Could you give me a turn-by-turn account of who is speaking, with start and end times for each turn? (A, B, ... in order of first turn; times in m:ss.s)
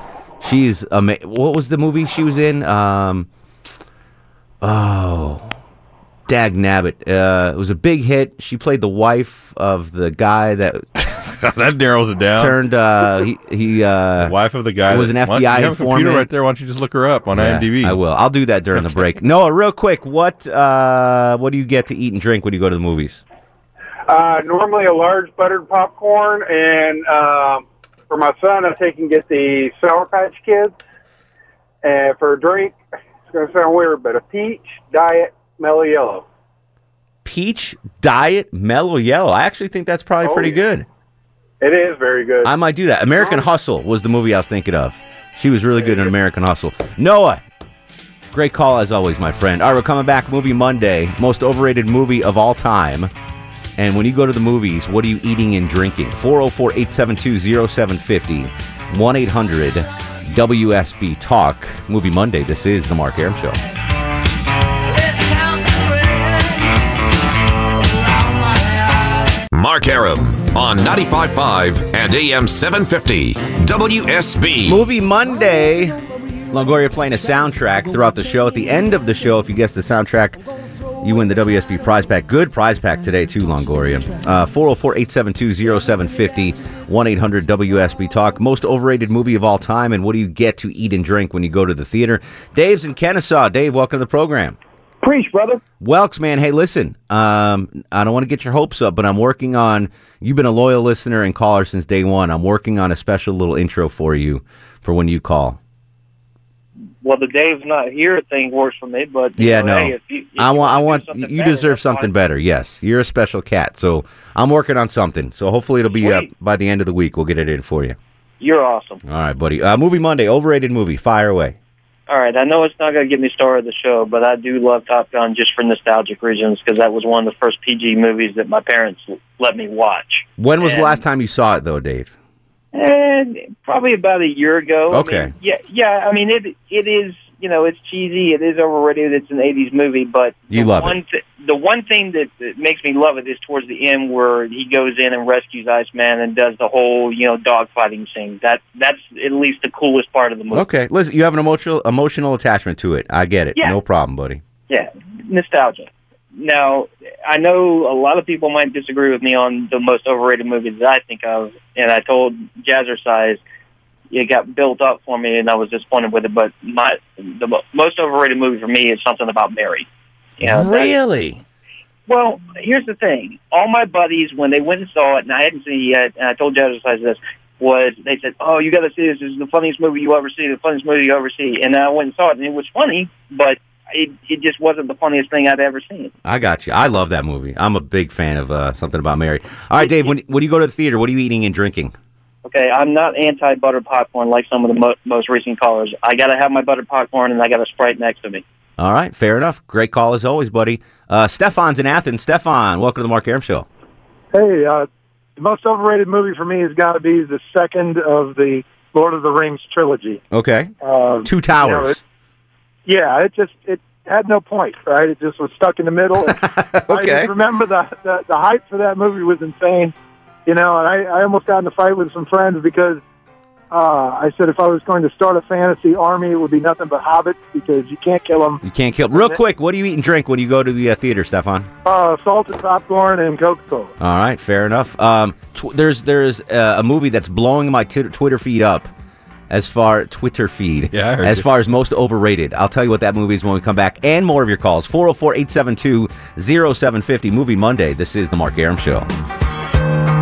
0:00.4-0:03.3 A
0:04.6-0:05.5 A
0:06.3-0:10.8 A
0:11.1-0:12.6 B
0:12.4-0:14.3 A
0:14.2-0:18.0 B
0:14.9-0:16.3 A
0:17.4-0:23.2 A
0:24.1-0:30.8 C
0:31.8-0:32.8 C
0:33.3-0:36.2 C
0:37.2-0:40.9 A
0:40.2-0:40.6 C
0:41.6-0:42.6 C
0:42.4-0:47.4 A
0:43.1-0:43.5 C
0:45.8-0:46.1 C
0:48.3-0:53.1 A
0:53.8-1:03.6 A
1:09.5-1:14.8 D
1:14.6-1:20.4 A
1:21.0-1:34.6 A
1:35.0-1:35.6 C
1:35.8-1:45.6 A
1:47.0-1:52.1 E
1:49.4-1:58.0 A
1:55.9-1:56.3 E
1:58.4-1:59.0 E
1:59.0-2:01.6 A
2:02.1-2:11.0 E
2:10.4-2:12.1 A
2:12.7-2:30.6 E
2:14.9-2:15.3 A
2:20.5-2:21.0 A
2:30.5-2:34.4 A
2:34.7-2:43.4 E
2:44.1-2:49.9 E
2:50.4-2:50.9 E
2:50.4-2:51.4 A
2:52.1-3:06.1 E
3:06.2-3:11.9 A
3:12.4-3:18.4 E
3:18.8-3:23.7 A
3:24.3-3:30.2 F
3:30.3-3:30.7 A
3:30.8-3:32.0 F
3:31.2-3:32.0 A
3:32.9-3:39.9 F
3:36.2-3:37.3 A
3:40.4-3:43.0 F
3:43.7-3:48.6 F
3:48.6-3:51.7 A
3:51.8-3:53.9 F
3:54.0-3:58.9 A
3:59.5-4:09.1 A
4:00.9-4:01.4 B